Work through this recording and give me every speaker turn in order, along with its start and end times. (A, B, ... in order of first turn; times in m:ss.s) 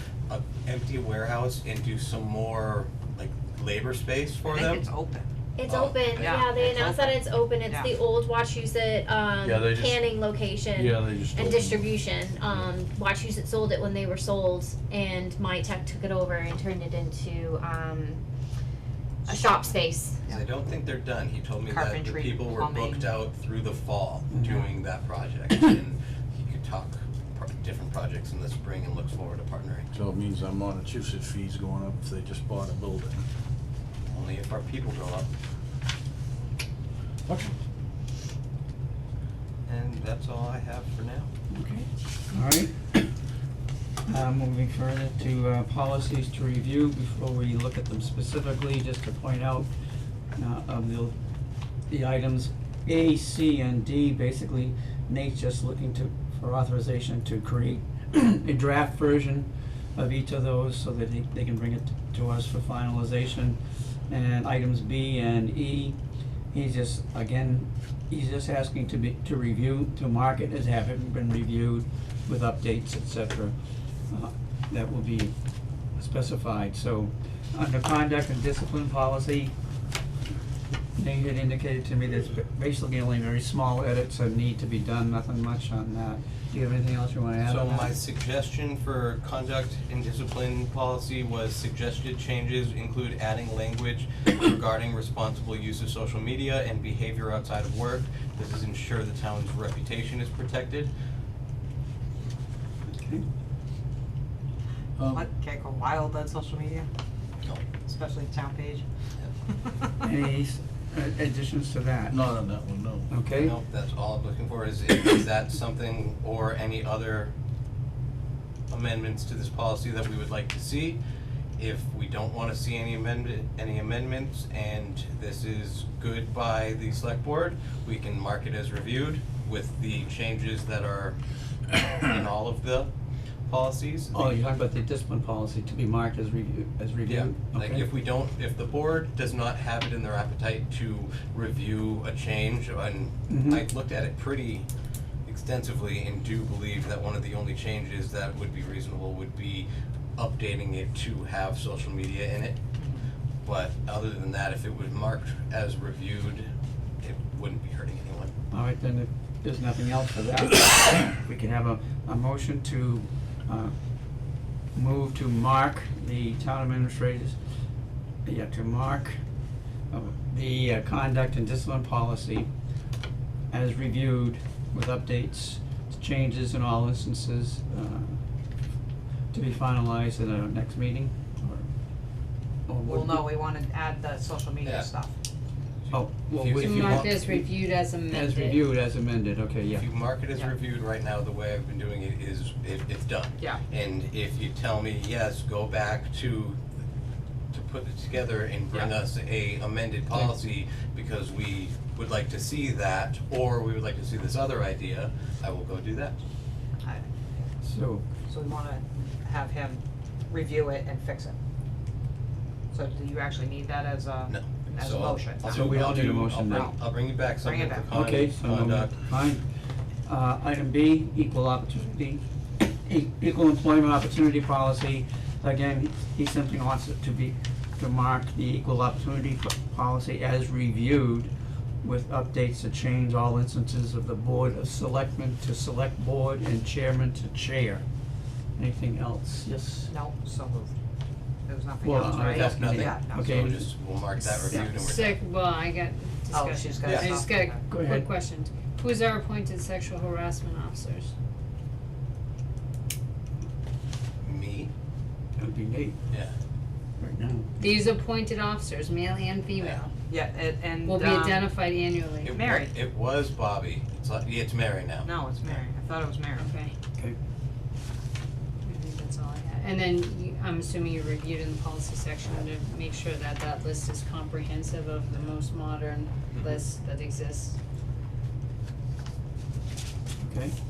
0:00.3-0:04.8 A
0:04.4-0:05.3 B
0:05.6-0:18.2 C
0:05.7-0:06.7 A
0:06.2-0:07.9 B
0:09.4-0:10.1 D
0:10.7-0:12.7 D
0:19.3-0:20.2 C
0:19.3-0:20.4 B
0:20.3-0:29.9 A
0:21.7-0:23.2 B
0:24.3-0:24.6 E
0:29.9-0:33.2 D
0:34.1-0:35.3 A
0:37.3-0:37.5 D
0:39.6-0:41.3 A
0:41.5-0:42.8 E
0:44.0-0:49.7 E
0:50.4-0:51.1 E
0:51.9-1:06.0 E
1:06.5-1:13.5 E
1:14.1-1:15.3 E
1:16.0-1:19.5 E
1:21.0-1:27.9 E
1:27.4-1:40.9 A
1:43.0-1:43.2 E
1:45.0-1:45.2 D
1:45.1-1:46.9 B
1:47.8-1:48.8 B
1:50.0-1:52.2 E
1:52.1-1:53.1 D
1:53.1-1:53.5 E
1:53.4-1:57.3 A
1:58.7-2:01.0 A
2:01.6-2:11.2 A
2:11.8-2:12.9 A
2:13.5-2:14.4 A
2:14.1-2:17.9 E
2:17.1-2:24.7 A
2:23.3-2:23.6 E
2:25.2-2:32.6 A
2:32.8-2:33.1 B
2:33.4-2:36.5 A
2:37.0-2:38.3 A
2:38.5-2:43.7 E
2:44.7-2:47.4 E
2:48.2-2:49.2 E
2:49.9-2:52.5 E
2:53.5-2:58.2 E
2:59.3-3:01.7 E
3:02.7-3:03.3 E
3:02.8-3:05.1 B
3:04.6-3:04.9 A
3:05.9-3:07.2 A
3:05.9-3:09.9 E
3:06.6-3:08.6 F
3:09.7-3:16.6 A
3:17.5-3:26.2 A
3:26.8-3:27.5 B
3:27.6-3:28.0 E
3:28.3-3:31.4 B
3:32.7-3:36.8 B
3:34.3-3:39.0 A
3:35.4-3:36.8 E
3:37.4-3:38.0 B
3:37.9-3:39.4 E
3:40.0-3:42.2 E
3:42.8-3:51.3 E
3:51.8-3:57.8 E
3:58.6-3:59.9 E
3:59.9-4:00.7 B
4:01.4-4:03.5 B
4:01.8-4:03.7 E
4:02.0-4:05.2 A
4:04.4-4:11.1 F
4:04.5-4:04.7 B
4:06.3-4:07.6 B
4:06.8-4:07.2 A
4:07.7-4:08.1 E
4:14.2-4:14.7 A
4:15.4-4:16.0 E
4:17.0-4:17.5 E
4:17.6-4:19.9 F
4:19.6-4:19.9 A
4:20.1-4:21.5 B
4:20.8-4:22.4 F
4:22.2-4:25.6 A
4:22.3-4:22.7 B
4:25.0-4:26.5 B
4:26.4-4:26.7 F
4:28.6-4:37.6 F
4:36.3-4:36.6 A
4:40.2-4:40.5 E